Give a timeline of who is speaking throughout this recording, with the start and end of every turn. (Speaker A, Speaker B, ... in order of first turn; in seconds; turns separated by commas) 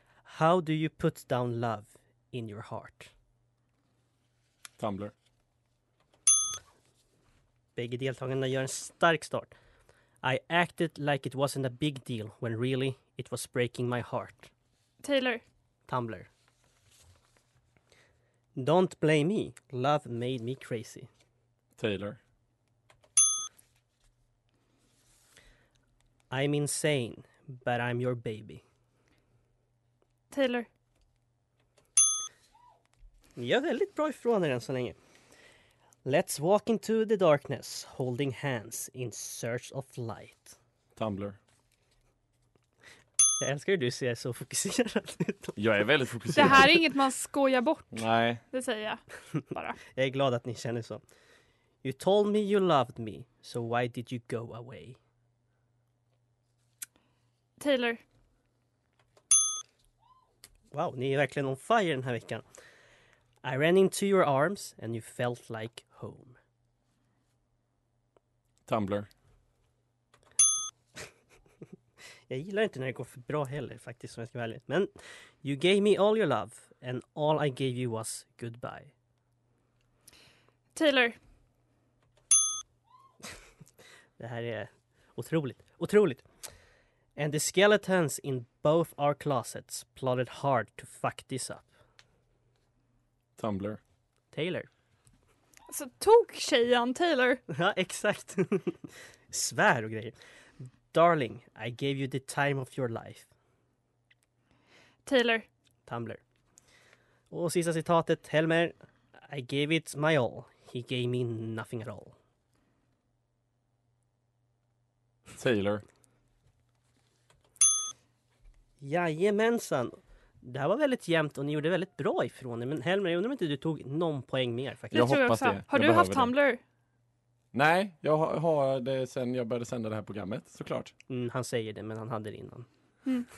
Speaker A: 0.2-3.1, Speaker B: 4.8-5.1, Speaker A: 7.8-9.5, Speaker A: 10.2-14.5, Speaker C: 15.0-15.4, Speaker A: 15.9-16.3, Speaker A: 18.6-21.1, Speaker B: 21.8-22.2, Speaker A: 26.3-28.6, Speaker C: 30.3-30.7, Speaker A: 33.4-35.0, Speaker A: 36.0-40.5, Speaker B: 41.0-41.4, Speaker A: 43.4-45.6, Speaker B: 45.5-46.8, Speaker A: 46.3-46.6, Speaker C: 46.3-49.0, Speaker B: 47.9-48.4, Speaker C: 49.5-49.8, Speaker A: 49.9-51.0, Speaker A: 51.8-55.0, Speaker C: 57.6-58.0, Speaker A: 60.7-62.4, Speaker A: 63.4-66.4, Speaker B: 68.7-69.1, Speaker A: 72.3-74.9, Speaker A: 75.4-78.9, Speaker C: 80.7-81.2, Speaker A: 84.2-86.2, Speaker A: 87.2-91.7, Speaker B: 93.4-93.8, Speaker A: 94.3-94.7, Speaker C: 95.7-97.4, Speaker A: 97.5-103.3, Speaker C: 105.0-105.5, Speaker A: 105.9-106.2, Speaker A: 107.3-108.7, Speaker A: 109.3-112.1, Speaker B: 115.3-115.8, Speaker A: 118.8-125.1, Speaker C: 124.9-126.6, Speaker B: 124.9-126.3, Speaker B: 127.5-130.9, Speaker A: 131.1-132.7